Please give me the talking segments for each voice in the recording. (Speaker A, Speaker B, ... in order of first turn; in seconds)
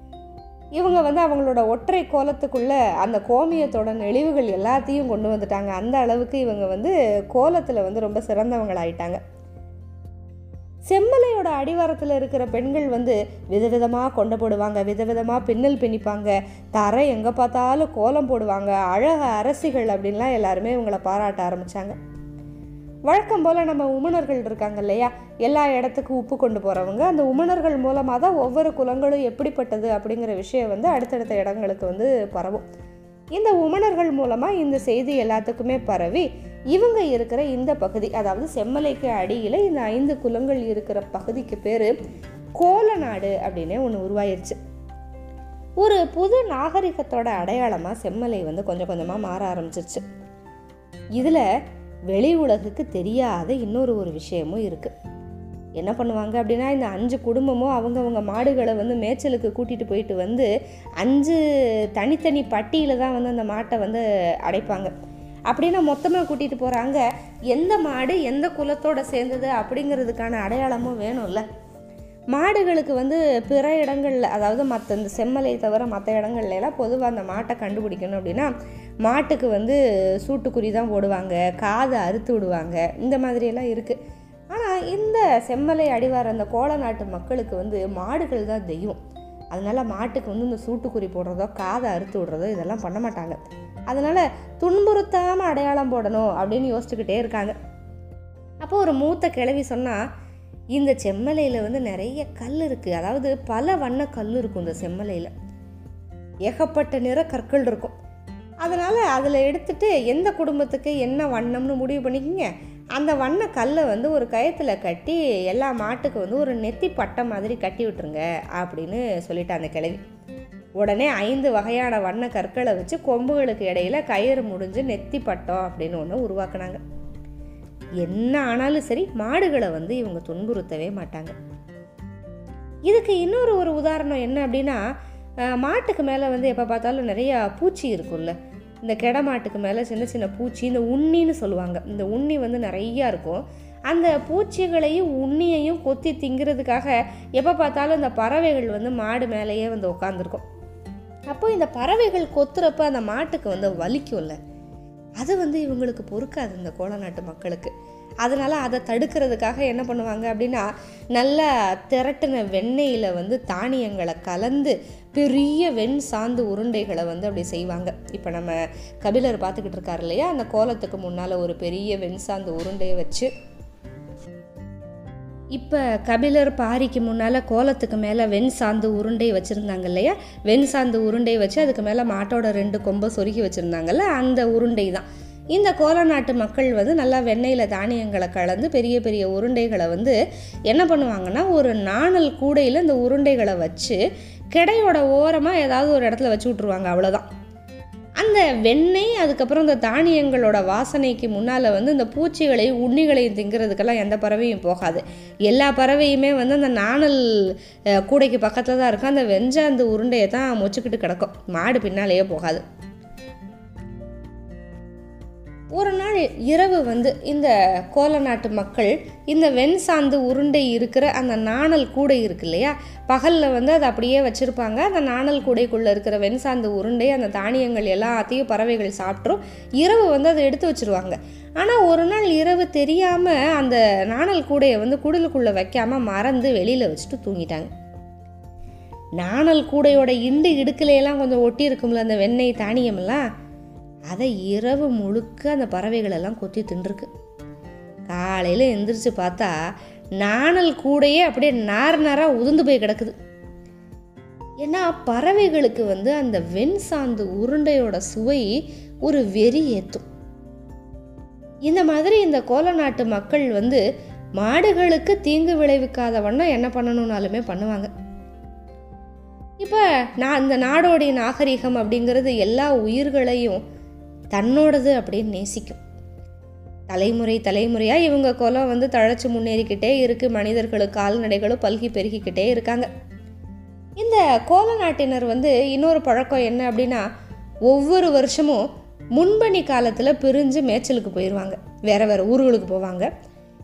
Speaker A: 0.8-9.2, 10.9-22.0, 23.1-32.7, 33.3-41.9, 42.6-44.6, 45.8-50.0, 51.2-51.5, 52.1-54.9, 55.8-60.5, 61.0-61.4, 62.0-64.9, 65.5-71.4, 72.3-78.5, 79.1-84.0, 84.5-89.0, 89.5-93.4, 93.9-97.6, 98.6-100.0, 100.8-105.3, 106.5-108.0, 108.6-120.0, 120.8-126.8, 128.0-131.3, 132.9-134.8, 135.4-150.4, 151.3-154.4, 155.2-157.7, 158.2-173.3, 175.6-190.2, 190.7-194.0, 194.5-197.3, 198.2-212.6, 215.7-237.7, 239.2-243.3, 244.1-247.1, 248.1-249.5, 250.2-253.1, 254.6-260.1, 261.7-263.8, 264.4-267.9, 269.6-273.6, 274.3-275.8, 276.9-282.9, 284.0-287.0, 287.7-293.1